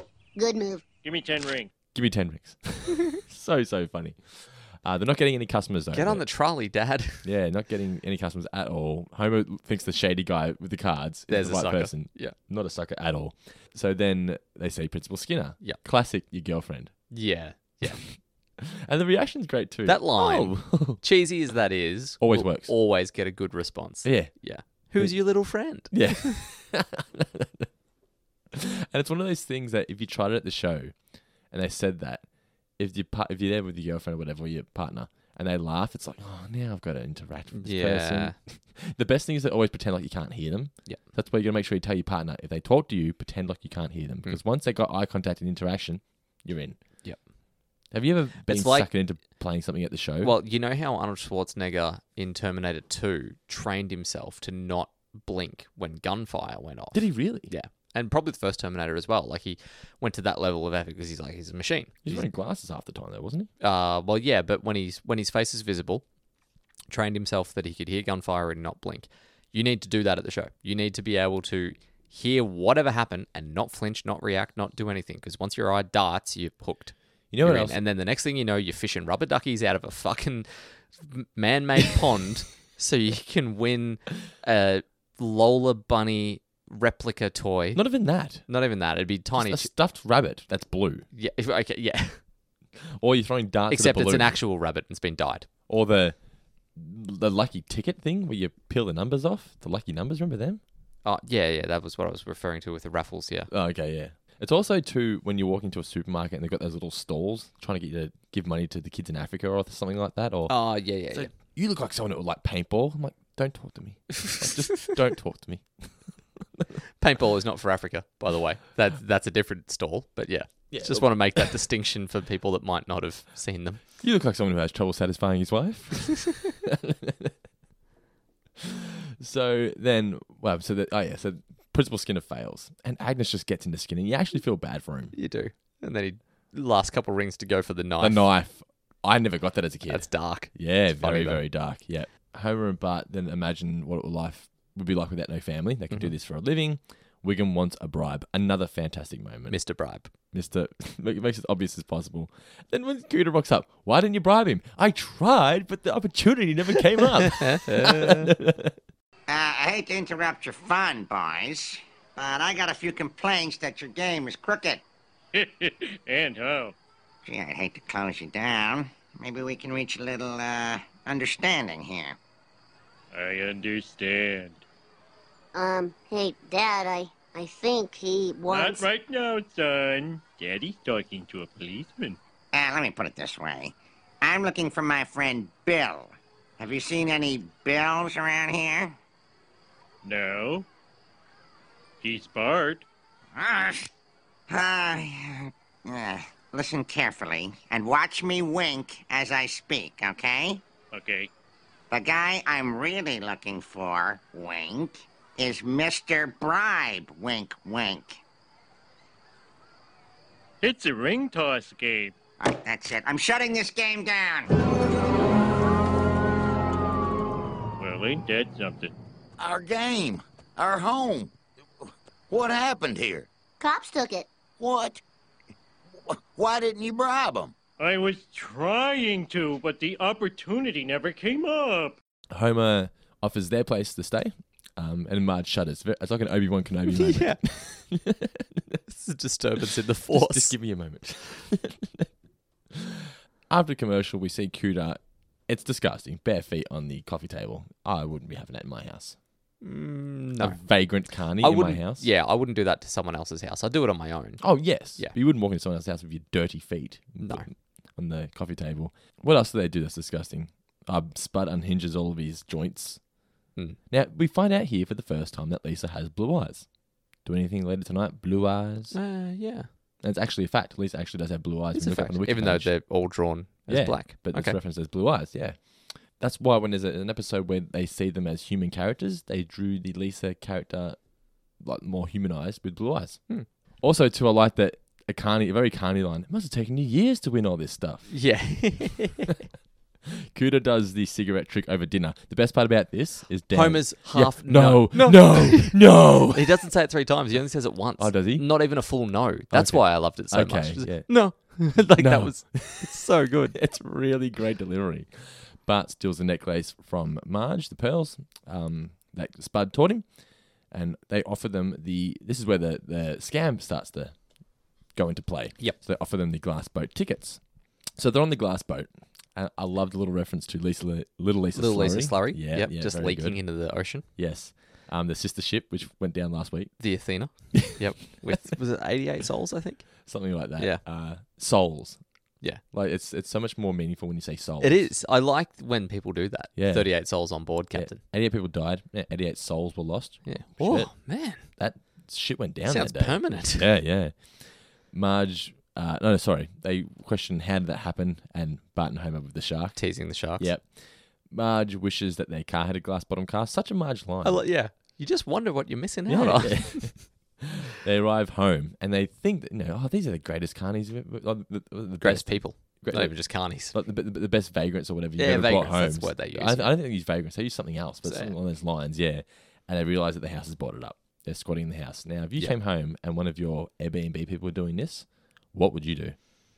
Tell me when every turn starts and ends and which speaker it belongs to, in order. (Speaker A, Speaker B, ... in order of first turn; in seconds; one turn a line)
Speaker A: 0.3-0.8
Speaker B: 1.0-1.7
Speaker C: 1.9-6.3
Speaker D: 5.9-7.3
Speaker C: 7.2-17.1
Speaker D: 11.3-12.3
Speaker D: 17.1-18.1
Speaker C: 17.8-21.0
Speaker D: 19.8-26.4
Speaker C: 22.2-22.7
Speaker C: 24.0-27.7
Speaker C: 28.5-46.8
Speaker D: 37.5-38.4
Speaker C: 47.9-50.3
Speaker D: 48.4-48.9
Speaker D: 50.2-62.3
Speaker C: 56.9-57.5
Speaker C: 62.0-63.5
Speaker D: 63.6-66.1
Speaker D: 66.9-89.7
Speaker C: 77.3-77.8
Speaker C: 87.7-88.5
Speaker C: 89.3-91.0
Speaker D: 91.1-92.2
Speaker C: 93.0-94.4
Speaker D: 93.7-95.5
Speaker C: 95.7-96.2
Speaker C: 96.7-100.6
Speaker D: 101.0-103.5
Speaker C: 103.5-116.0
Speaker D: 110.5-111.3
Speaker D: 117.0-123.8
Speaker C: 120.7-121.5
Speaker C: 124.0-127.3
Speaker C: 128.6-135.1
Speaker D: 135.1-138.3
Speaker C: 138.0-149.8
Speaker D: 139.9-141.4
Speaker D: 149.5-150.1
Speaker C: 150.3-158.8
Speaker D: 157.2-158.3
Speaker E: 159.3-164.8
Speaker B: 165.3-166.7
Speaker E: 167.3-172.2
Speaker B: 173.1-174.6
Speaker A: 175.5-178.8
Speaker B: 178.5-182.2
Speaker E: 182.5-188.9
Speaker B: 190.0-190.7
Speaker B: 192.0-192.8
Speaker E: 193.3-193.8
Speaker E: 194.5-195.3
Speaker E: 195.9-200.6
Speaker B: 200.9-201.3
Speaker E: 201.9-208.2
Speaker B: 210.6-212.1
Speaker E: 212.4-214.5
Speaker B: 217.8-218.9
Speaker F: 219.4-221.3
Speaker F: 222.3-223.3
Speaker A: 223.6-224.3
Speaker F: 224.6-225.0
Speaker F: 226.1-227.5
Speaker B: 227.8-232.0
Speaker C: 232.3-238.8
Speaker D: 236.9-237.4
Speaker D: 238.9-240.6
Speaker C: 240.1-242.1
Speaker C: 243.5-249.2
Speaker D: 249.6-250.6
Speaker C: 250.4-252.1
Speaker D: 251.4-255.2
Speaker C: 254.4-263.1
Speaker D: 257.2-257.5
Speaker C: 263.9-269.0
Speaker D: 268.9-269.7
Speaker C: 270.0-273.1
Speaker D: 271.7-274.6
Speaker C: 273.7-288.1
Speaker D: 288.1-289.3
Speaker C: 290.1-296.5
Speaker D: 293.5-303.6
Speaker C: 298.0-303.0
Speaker C: 303.5-310.1
Speaker C: 310.7-314.2
Speaker C: 314.9-328.4
Speaker D: 321.5-324.1
Speaker D: 326.8-330.8
Speaker C: 330.0-332.0
Speaker C: 332.5-334.9
Speaker D: 334.6-338.0
Speaker C: 336.5-354.5
Speaker D: 340.2-341.5
Speaker D: 342.6-343.7
Speaker D: 349.8-350.5
Speaker D: 354.2-357.0
Speaker C: 356.1-376.2
Speaker D: 362.0-363.8
Speaker D: 365.2-366.8
Speaker D: 368.0-368.3